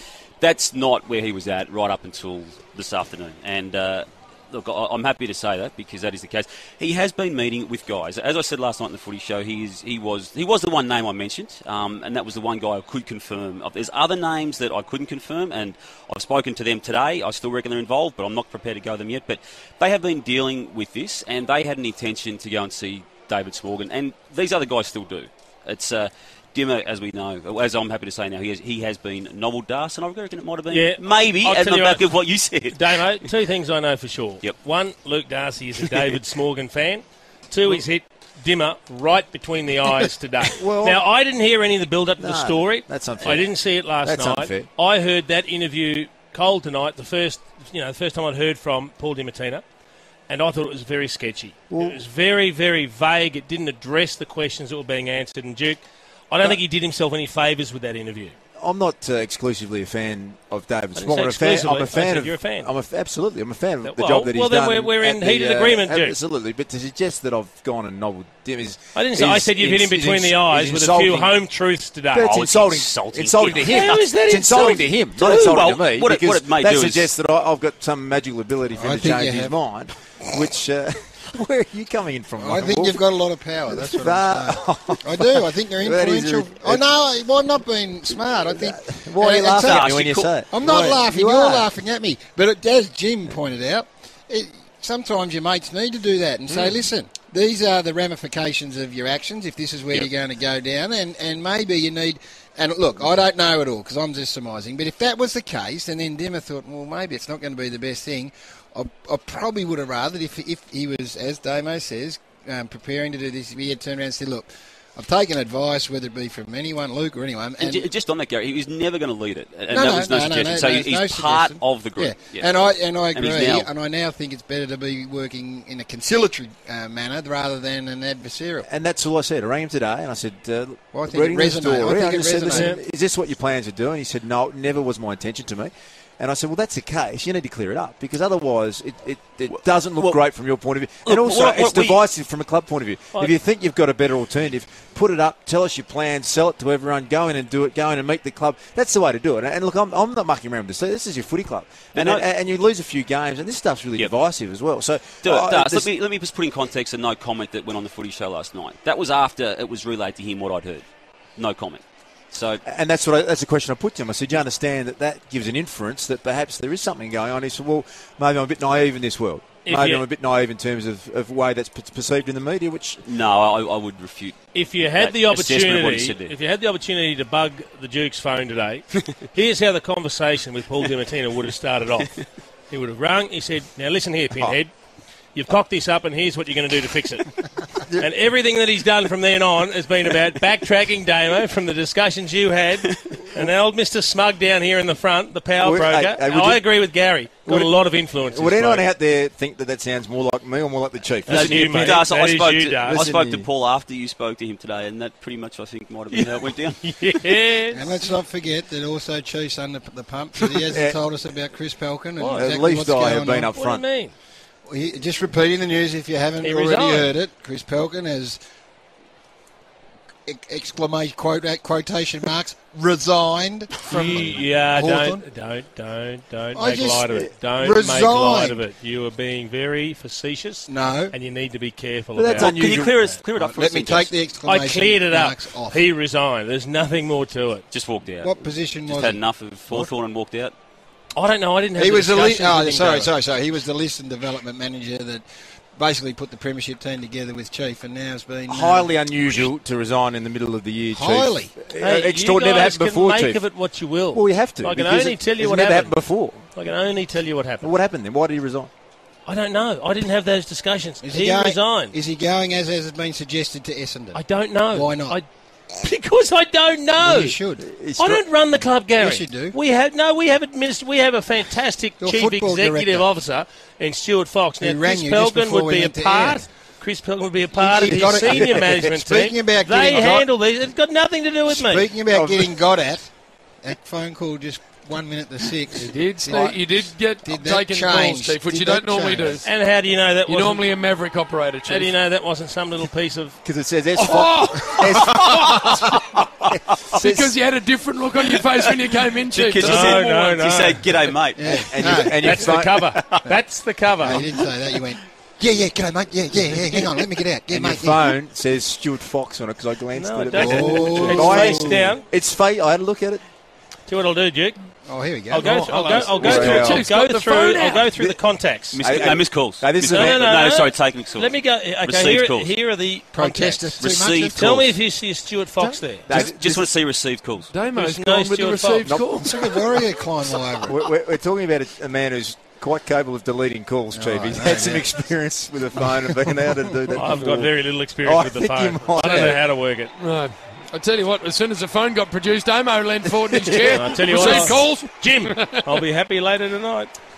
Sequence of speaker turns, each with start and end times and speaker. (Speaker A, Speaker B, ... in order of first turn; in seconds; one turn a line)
Speaker A: 0.4-33.0
Speaker B: 30.7-49.6
Speaker C: 40.6-41.0
Speaker C: 42.2-44.7
Speaker B: 50.3-58.3
Speaker C: 51.7-52.0
Speaker C: 58.6-71.4
Speaker B: 61.0-62.7
Speaker B: 63.8-66.2
Speaker B: 68.9-72.3
Speaker C: 72.1-83.0
Speaker A: 72.2-74.0
Speaker B: 73.6-75.6
Speaker A: 75.2-77.1
Speaker D: 78.8-79.6
Speaker D: 82.4-117.9
Speaker C: 83.7-86.9
Speaker C: 88.4-91.7
Speaker A: 89.6-90.3
Speaker E: 96.5-96.9
Speaker A: 117.6-123.7
Speaker D: 119.7-128.7
Speaker C: 128.6-155.9
Speaker D: 130.9-132.8
Speaker B: 132.5-132.8
Speaker A: 139.5-140.2
Speaker A: 141.1-142.0
Speaker A: 151.9-152.2
Speaker A: 155.2-162.6
Speaker C: 162.7-173.0
Speaker B: 169.7-170.1
Speaker A: 173.0-176.3
Speaker B: 174.5-184.7
Speaker B: 185.3-198.9
Speaker C: 195.6-196.6
Speaker C: 197.4-202.0
Speaker B: 201.3-203.1
Speaker A: 201.3-207.3
Speaker C: 202.8-203.5
Speaker B: 206.1-207.9
Speaker D: 207.7-213.5
Speaker C: 210.6-211.0
Speaker B: 212.2-212.5
Speaker C: 212.3-213.9
Speaker B: 213.5-214.1
Speaker D: 214.7-218.4
Speaker B: 216.4-217.1
Speaker D: 220.3-225.2
Speaker B: 223.9-233.2
Speaker D: 226.5-228.6
Speaker D: 230.7-231.2
Speaker C: 232.2-233.0
Speaker A: 232.3-234.1
Speaker D: 233.3-235.8
Speaker B: 234.4-237.7
Speaker A: 237.7-240.5
Speaker D: 238.2-239.9
Speaker B: 241.1-243.1
Speaker D: 241.8-249.5
Speaker C: 248.5-253.5
Speaker D: 250.9-251.5
Speaker B: 251.8-256.0
Speaker C: 254.1-256.5
Speaker B: 256.5-257.7
Speaker C: 257.6-258.7
Speaker B: 259.3-262.0
Speaker D: 261.0-265.2
Speaker B: 264.1-265.3
Speaker B: 265.8-267.4
Speaker D: 267.0-267.6
Speaker C: 267.6-268.2
Speaker B: 268.0-281.9
Speaker D: 269.0-269.6
Speaker D: 272.0-273.1
Speaker D: 274.6-276.4
Speaker D: 277.5-280.3
Speaker C: 277.9-278.8
Speaker D: 281.5-289.5
Speaker C: 282.1-282.5
Speaker E: 285.7-289.5
Speaker B: 289.4-290.7
Speaker E: 290.2-292.0
Speaker B: 291.7-293.4
Speaker C: 293.4-295.9
Speaker E: 294.0-296.0
Speaker E: 296.9-300.1
Speaker A: 298.4-302.0
Speaker B: 299.6-300.9
Speaker D: 301.4-302.5
Speaker C: 301.5-303.0
Speaker B: 302.2-304.3
Speaker D: 304.0-308.2
Speaker C: 306.4-306.8
Speaker C: 307.5-313.2
Speaker B: 309.9-312.0
Speaker D: 310.4-311.9
Speaker B: 313.9-314.6
Speaker D: 314.9-315.8
Speaker B: 315.3-319.2
Speaker E: 315.4-317.9
Speaker C: 315.4-316.9
Speaker C: 317.9-318.2
Speaker C: 318.7-320.4
Speaker A: 318.7-322.5
Speaker B: 319.8-326.2
Speaker D: 323.1-324.6
Speaker A: 323.8-324.7
Speaker E: 325.6-326.3
Speaker C: 326.1-326.7
Speaker A: 326.1-327.5
Speaker E: 327.5-329.8
Speaker B: 327.7-328.9
Speaker C: 328.9-329.3
Speaker D: 329.2-330.8
Speaker C: 330.6-339.4
Speaker D: 333.9-334.9
Speaker B: 336.9-339.9
Speaker E: 339.1-339.4
Speaker E: 340.0-345.8
Speaker C: 343.1-344.6
Speaker B: 343.7-346.9